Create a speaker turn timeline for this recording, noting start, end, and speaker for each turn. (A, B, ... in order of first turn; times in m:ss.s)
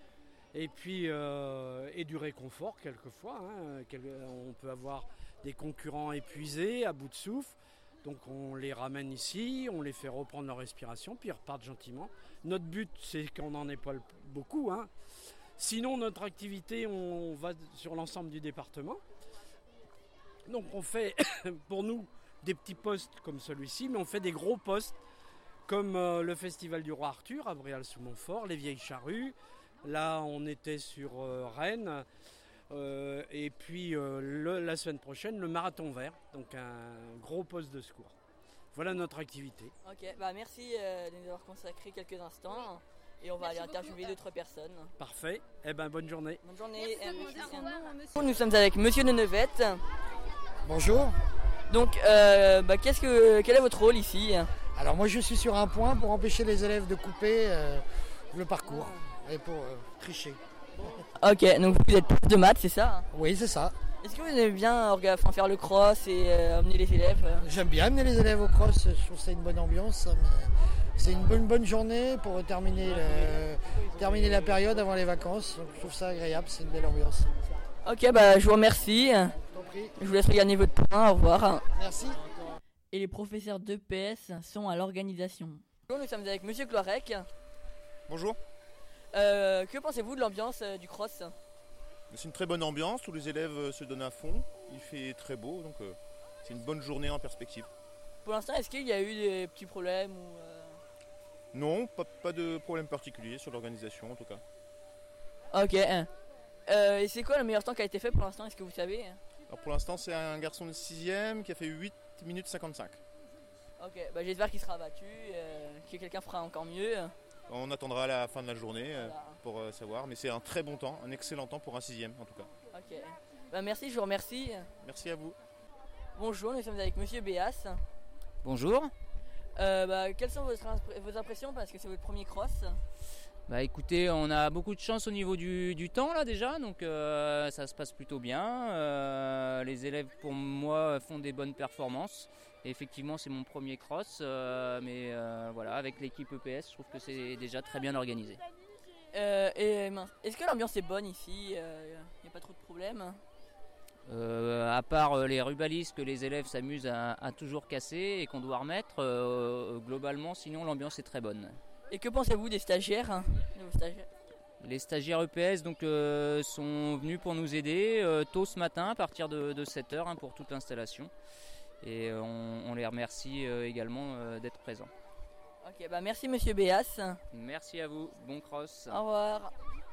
0:00.5-0:14.9 A
0:15.6-0:19.0 A
0:20.5-0:25.0 A
0:25.7-0:32.0 A
0:32.7-0:38.1 A
0:38.7-0:39.7 A
0:39.8-0:44.9 B
0:45.0-0:46.4 A
0:46.4-0:49.8 B
0:50.7-0:51.2 C
0:51.7-0:54.5 B
0:54.8-1:01.0 C
1:01.2-1:03.1 B
1:03.1-1:03.8 C
1:04.0-1:07.5 B
1:07.4-1:17.3 C
1:17.8-1:19.4 B
1:19.5-1:19.9 C
1:20.0-1:21.6 B
1:21.8-1:22.2 C
1:22.9-1:27.3 B
1:28.1-1:28.4 D
1:29.1-1:31.3 B
1:32.1-1:37.7 D
1:38.2-1:40.8 B
1:41.5-1:44.4 D
1:45.5-1:46.1 B
1:46.7-1:49.2 B
1:49.5-1:53.0 D
1:53.8-1:57.1 B
1:57.5-2:02.5 D
1:59.0-1:59.4 B
2:02.7-2:04.7 B
2:04.8-2:05.4 D
2:06.2-2:07.8 B
2:08.4-2:08.9 E
2:09.6-2:12.8 B
2:13.5-2:28.4 E
2:29.1-2:33.2 B
2:34.1-2:41.6 E
2:41.9-2:44.1 B
2:44.6-2:51.1 E
2:51.8-2:54.9 E
2:55.6-2:57.2 B
2:57.3-2:59.0 E
2:58.9-2:59.5 B